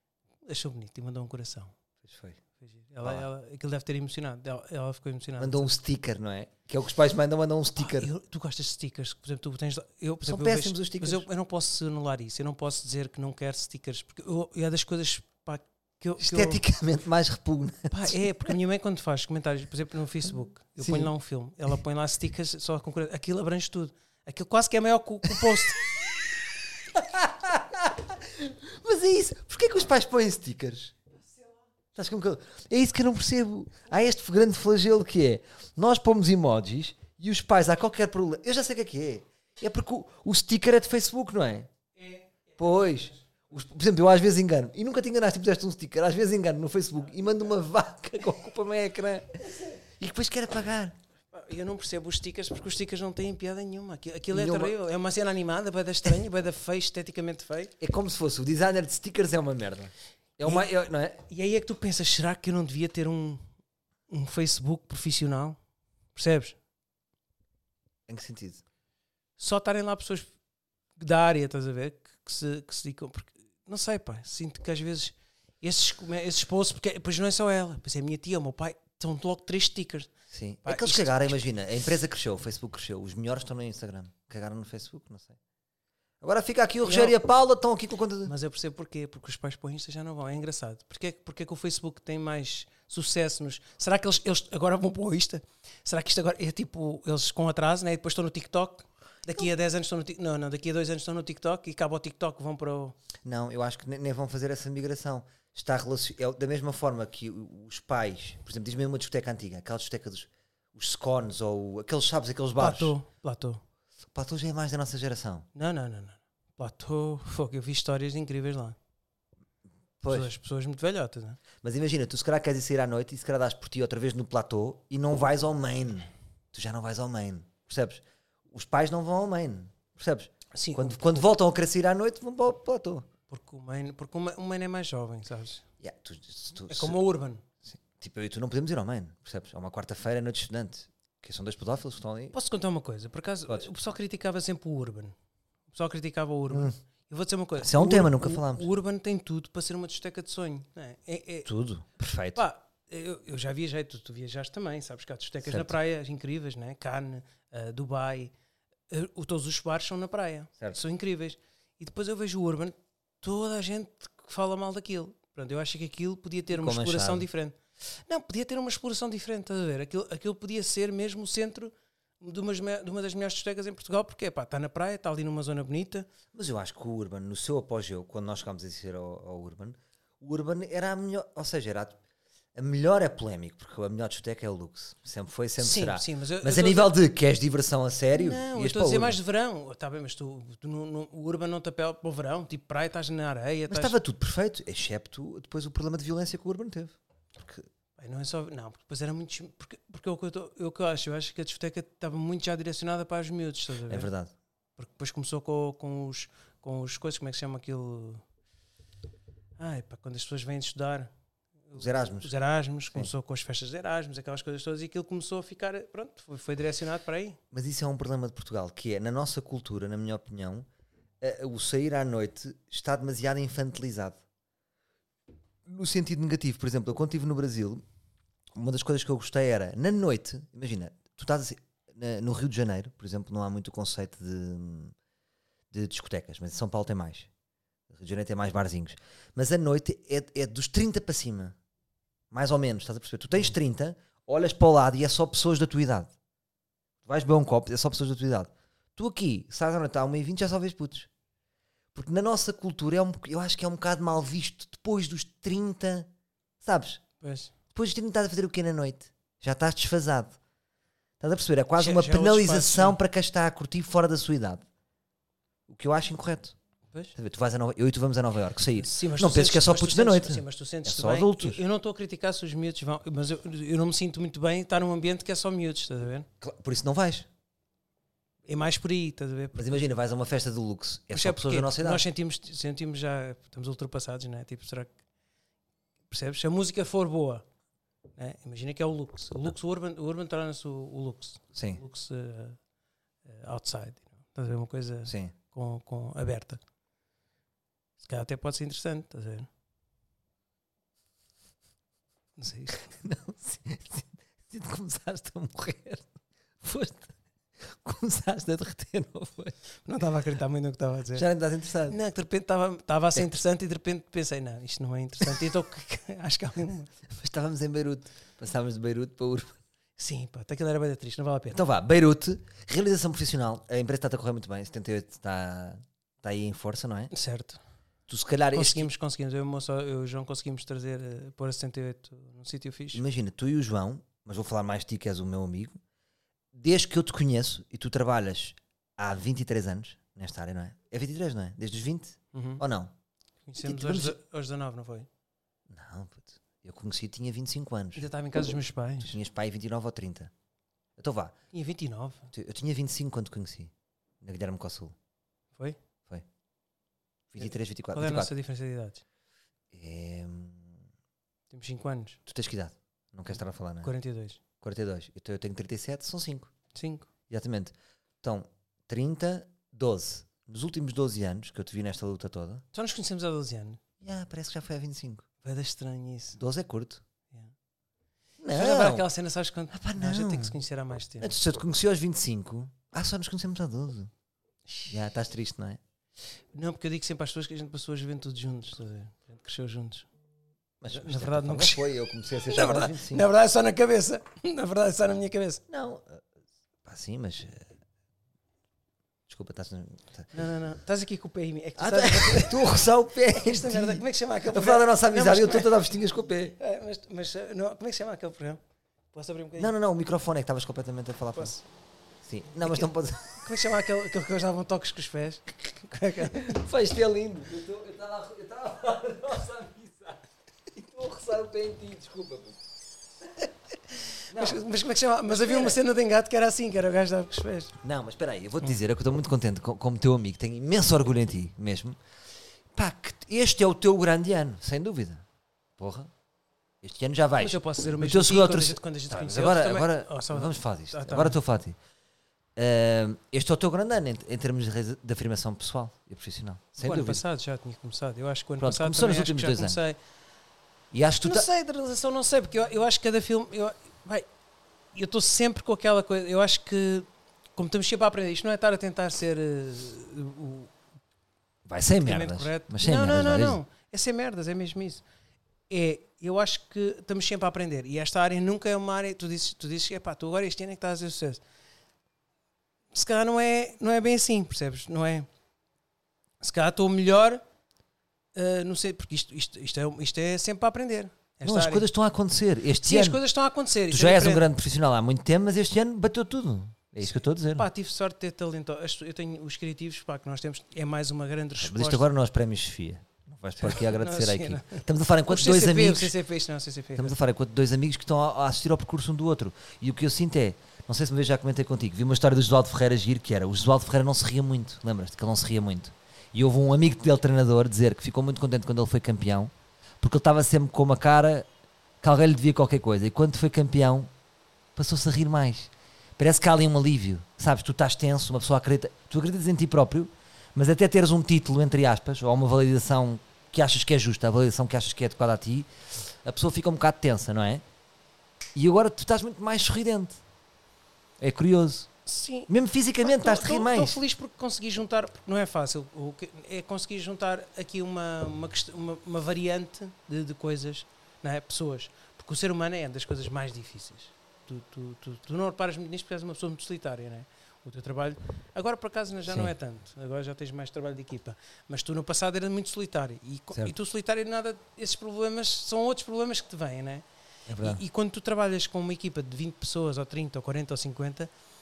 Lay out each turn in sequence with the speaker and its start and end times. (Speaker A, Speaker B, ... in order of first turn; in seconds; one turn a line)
Speaker A: 0.5-1.7
Speaker B: 2.0-2.4
Speaker A: 2.6-5.7
Speaker B: 5.4-8.1
Speaker A: 7.8-16.6
Speaker B: 10.2-11.2
Speaker B: 16.2-18.5
Speaker A: 17.9-25.9
Speaker B: 20.8-21.1
Speaker B: 25.3-25.6
Speaker B: 26.9-30.9
Speaker B: 31.9-41.7
Speaker A: 42.0-43.2
Speaker B: 42.6-51.0
Speaker A: 51.3-57.7
Speaker B: 54.3-54.7
Speaker B: 57.8-61.2
Speaker A: 61.3-63.5
Speaker A: 64.1-65.6
Speaker A: 66.1-66.6
Speaker B: 68.1-68.6
Speaker A: 69.4-70.3
Speaker A: 71.0-80.1
Speaker B: 80.3-85.4
Speaker A: 80.6-81.4
Speaker B: 86.2-88.3
Speaker A: 86.8-87.2
Speaker A: 88.2-103.0
Speaker B: 103.2-113.0
Speaker A: 112.6-113.6
Speaker B: 114.1-115.5
Speaker A: 115.5-118.8
Speaker B: 120.0-120.3
Speaker A: 120.1-121.4
Speaker B: 121.6-133.1
Speaker A: 130.5-131.3
Speaker A: 133.3-135.6
Speaker B: 135.8-137.0
Speaker A: 136.7-137.4
Speaker B: 137.6-142.3
Speaker A: 142.3-145.1
Speaker A: 145.7-151.5
Speaker B: 146.5-146.8
Speaker B: 147.6-148.7
Speaker B: 151.4-152.4
Speaker A: 152.3-158.3
Speaker B: 155.4-155.7
Speaker A: 158.9-176.1
Speaker B: 166.5-167.3
Speaker B: 176.3-182.0
Speaker B: 182.5-189.2
Speaker A: 185.6-187.0
Speaker A: 188.1-194.0
Speaker B: 193.7-197.7
Speaker A: 198.0-204.1
Speaker B: 203.9-204.3
Speaker A: 204.8-208.2
Speaker A: 209.6-211.1
Speaker A: 211.7-217.4
Speaker B: 211.8-212.3
Speaker B: 217.5-220.7
Speaker B: 221.2-224.2
Speaker B: 225.6-227.8
Speaker B: 228.5-234.9
Speaker B: 235.7-237.3
Speaker B: 237.9-241.6
Speaker B: 242.3-246.1
Speaker B: 247.0-251.1
Speaker B: 251.9-256.1
Speaker B: 256.6-257.0
Speaker A: 257.2-257.5
Speaker B: 257.7-260.4
Speaker B: 261.2-264.6
Speaker A: 261.8-263.0
Speaker B: 265.7-266.6
Speaker B: 267.1-271.6
Speaker A: 268.8-276.3
Speaker B: 276.4-277.3
Speaker A: 278.4-279.8
Speaker B: 279.5-282.0
Speaker A: 281.1-285.0
Speaker A: 286.1-287.4
Speaker A: 288.2-292.6
Speaker B: 291.5-291.8
Speaker A: 293.2-296.6
Speaker B: 295.1-295.3
Speaker A: 298.0-299.5
Speaker A: 302.4-302.9
Speaker B: 302.9-306.1
Speaker B: 306.6-307.1
Speaker B: 307.7-309.6
Speaker A: 309.8-311.3
Speaker B: 311.1-312.0
Speaker A: 311.9-316.9
Speaker B: 317.1-319.6
Speaker A: 320.0-321.6
Speaker B: 321.5-327.1
Speaker A: 327.1-327.6
Speaker B: 328.1-328.9
Speaker A: 328.5-333.0
Speaker B: 332.9-335.8
Speaker B: 336.5-342.9
Speaker A: 342.3-342.6
Speaker A: 343.4-345.1
Speaker B: 343.6-344.2
Speaker B: 345.7-348.1
Speaker A: 347.9-349.1
Speaker B: 349.0-350.3
Speaker B: 351.0-351.3
Speaker A: 351.5-352.3
Speaker B: 352.3-354.9
Speaker B: 357.3-358.3
Speaker A: 357.4-359.0
Speaker B: 359.7-360.8
Speaker A: 361.5-362.2
Speaker B: 362.3-363.9
Speaker A: 363.8-364.4
Speaker B: 364.6-366.5
Speaker A: 366.7-367.1
Speaker B: 367.3-372.6
Speaker A: 372.7-373.8
Speaker B: 374.0-375.2
Speaker A: 375.4-376.4
Speaker B: 376.4-377.0
Speaker B: 378.4-379.1
Speaker A: 378.5-381.3
Speaker B: 379.7-380.6
Speaker B: 381.2-384.1
Speaker B: 384.9-385.8
Speaker A: 386.5-390.1
Speaker B: 390.8-393.3
Speaker A: 390.9-391.8
Speaker A: 392.5-395.6
Speaker B: 395.7-396.2
Speaker B: 396.8-397.7
Speaker B: 399.3-400.3
Speaker A: 400.3-405.9
Speaker B: 401.8-406.6
Speaker A: 406.6-408.6
Speaker A: 409.1-409.7
Speaker B: 409.6-411.5
Speaker A: 411.3-411.6
Speaker B: 412.2-413.4
Speaker A: 413.4-416.6
Speaker B: 416.2-422.6
Speaker A: 424.3-427.7
Speaker B: 424.3-424.6
Speaker B: 425.3-425.8
Speaker B: 427.8-432.0
Speaker B: 432.7-435.2
Speaker B: 435.8-436.1
Speaker B: 436.8-441.8
Speaker A: 437.4-441.4
Speaker B: 442.6-447.2
Speaker A: 446.8-450.0
Speaker B: 448.6-449.8
Speaker B: 450.9-451.5
Speaker A: 451.2-454.2
Speaker A: 454.9-460.7
Speaker B: 461.6-463.6
Speaker A: 462.0-465.0
Speaker A: 465.7-471.4
Speaker A: 472.9-475.3
Speaker A: 476.4-477.4
Speaker A: 478.3-481.9
Speaker B: 481.4-483.2
Speaker A: 482.8-484.5
Speaker B: 483.9-487.7
Speaker A: 487.0-492.1
Speaker B: 491.6-496.1
Speaker A: 493.6-497.1
Speaker B: 496.9-511.5
Speaker B: 512.0-514.1
Speaker B: 514.8-527.6
Speaker B: 528.5-530.2
Speaker B: 531.2-531.9
Speaker A: 532.0-532.5
Speaker B: 532.5-534.0
Speaker A: 533.0-557.0
Speaker B: 549.3-549.5
Speaker B: 557.5-557.8
Speaker A: 557.6-561.3